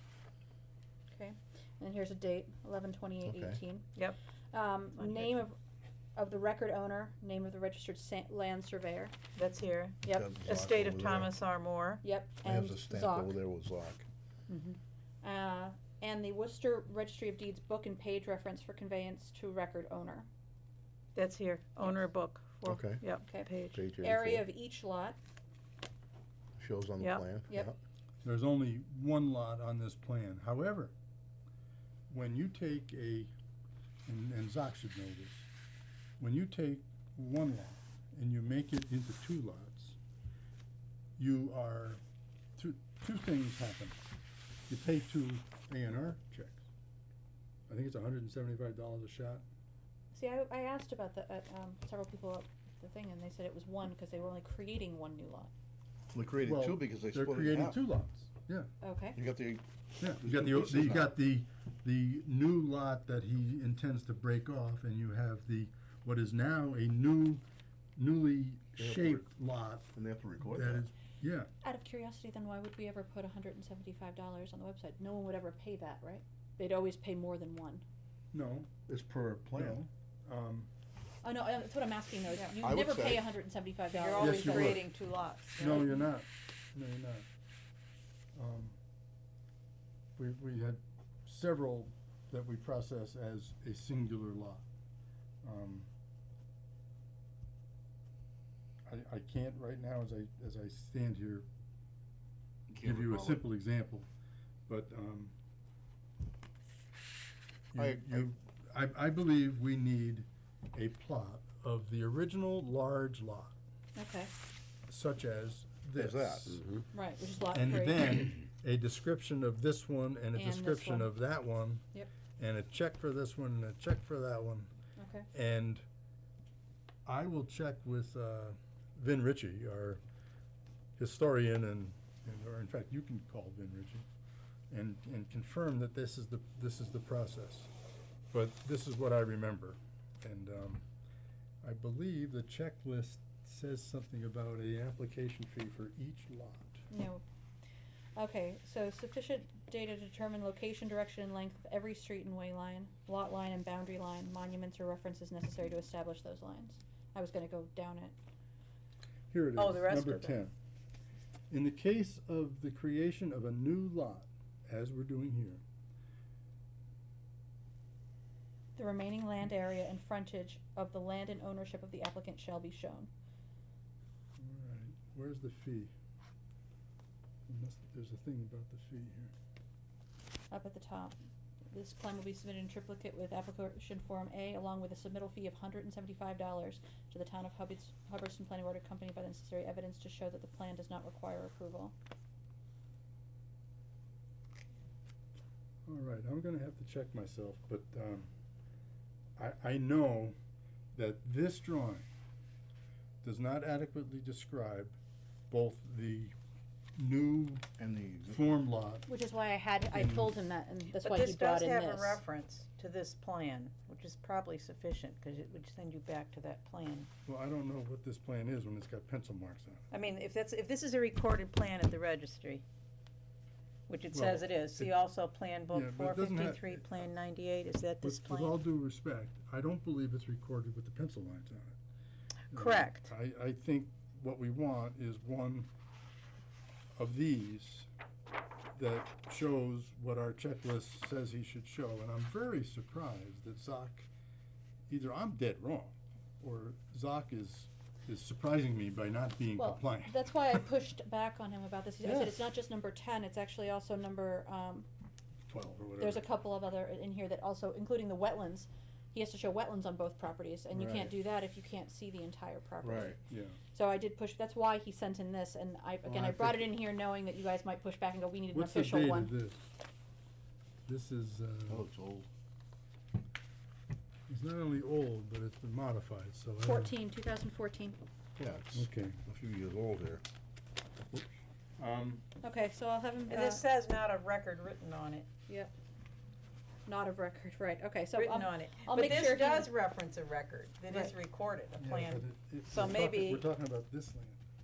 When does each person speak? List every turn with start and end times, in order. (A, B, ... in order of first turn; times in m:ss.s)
0:01.1-0:03.9 A
0:03.2-0:03.6 B
0:04.5-0:05.6 A
0:05.0-0:05.4 C
0:06.2-0:09.1 A
0:09.4-0:12.0 C
0:10.0-0:10.4 A
0:10.1-0:11.4 B
0:12.0-0:13.4 A
0:12.4-0:14.1 B
0:14.5-0:14.8 C
0:15.2-0:20.3 A
0:21.1-0:23.8 C
0:22.6-0:23.0 B
0:23.2-0:25.2 A
0:23.7-0:24.5 B
0:26.6-0:27.8 B
0:27.0-0:27.2 C
0:28.2-0:30.9 D
0:32.1-0:33.3 D
0:34.0-0:35.5 D
0:36.2-0:40.0 D
0:41.2-0:42.0 D
0:42.6-0:44.0 D
0:44.7-0:46.6 D
0:47.7-0:49.4 D
0:50.1-0:55.5 A
0:56.1-0:57.8 B
0:56.4-0:58.7 D
0:58.8-0:59.2 A
0:59.2-1:01.1 B
1:00.0-1:07.4 D
1:08.0-1:11.5 D
1:08.8-1:09.2 B
1:10.0-1:10.9 B
1:11.6-1:17.8 A
1:18.3-1:18.7 D
1:18.9-1:19.8 B
1:19.5-1:20.7 D
1:21.2-1:24.8 A
1:22.6-1:23.3 B
1:23.9-1:26.1 C
1:24.2-1:24.9 D
1:25.6-1:27.2 D
1:28.3-1:28.8 D
1:30.2-1:34.6 D
1:35.4-1:35.9 D
1:38.9-1:41.4 D
1:42.7-1:43.4 B
1:42.8-1:44.1 D
1:44.7-1:45.3 D
1:47.7-1:53.6 D
1:47.8-1:48.2 B
1:54.0-1:54.3 A
1:54.9-1:56.6 D
1:56.0-1:56.8 B
1:56.9-1:58.2 A
1:57.5-2:01.8 D
2:00.3-2:01.1 A
2:02.4-2:04.7 D
2:05.0-2:05.3 A
2:05.3-2:05.8 D
2:07.1-2:10.0 D
2:11.0-2:14.1 D
2:14.7-2:17.7 D
2:18.3-2:20.8 D
2:21.6-2:26.8 D
2:26.9-2:27.2 A
2:28.2-2:38.2 A
2:39.3-2:40.5 D
2:39.6-2:40.4 C
2:41.5-2:45.6 D
2:48.8-2:53.1 A
2:54.4-2:55.9 D
2:57.5-2:59.3 D
3:00.5-3:01.2 A
3:01.7-3:11.9 A
3:15.8-3:18.3 D
3:19.4-3:20.4 D
3:20.9-3:22.1 D
3:23.2-3:25.0 D
3:25.5-3:26.3 D
3:27.0-3:27.6 D
3:27.8-3:28.5 B
3:28.3-3:29.1 D
3:29.1-3:32.2 A
3:29.9-3:30.3 D
3:31.0-3:37.1 C
3:37.2-3:39.8 D
3:39.9-3:42.6 C
3:43.9-3:48.6 C
3:44.1-3:44.9 D
3:45.7-3:46.8 D
3:48.0-3:51.8 D
3:52.5-3:53.1 C
3:52.5-3:55.7 D
3:57.0-3:57.9 D
3:58.8-4:04.1 D
4:04.9-4:10.5 D
4:09.6-4:14.9 A
4:12.0-4:12.4 D
4:15.5-4:16.3 D
4:16.0-4:23.2 A
4:20.7-4:21.1 B
4:22.8-4:23.2 B
4:23.3-4:23.6 D
4:23.7-4:29.3 A
4:26.0-4:26.6 B
4:28.5-4:29.6 D
4:30.9-4:31.9 D
4:31.7-4:32.3 B
4:34.3-4:37.0 D
4:36.6-4:38.0 A
4:38.4-4:40.2 B
4:38.7-4:39.2 D
4:41.8-4:42.2 D
4:42.4-4:43.6 A
4:43.3-4:45.3 C
4:46.8-4:49.7 A
4:48.1-4:53.4 C
4:50.9-4:51.1 A
4:51.8-4:54.4 D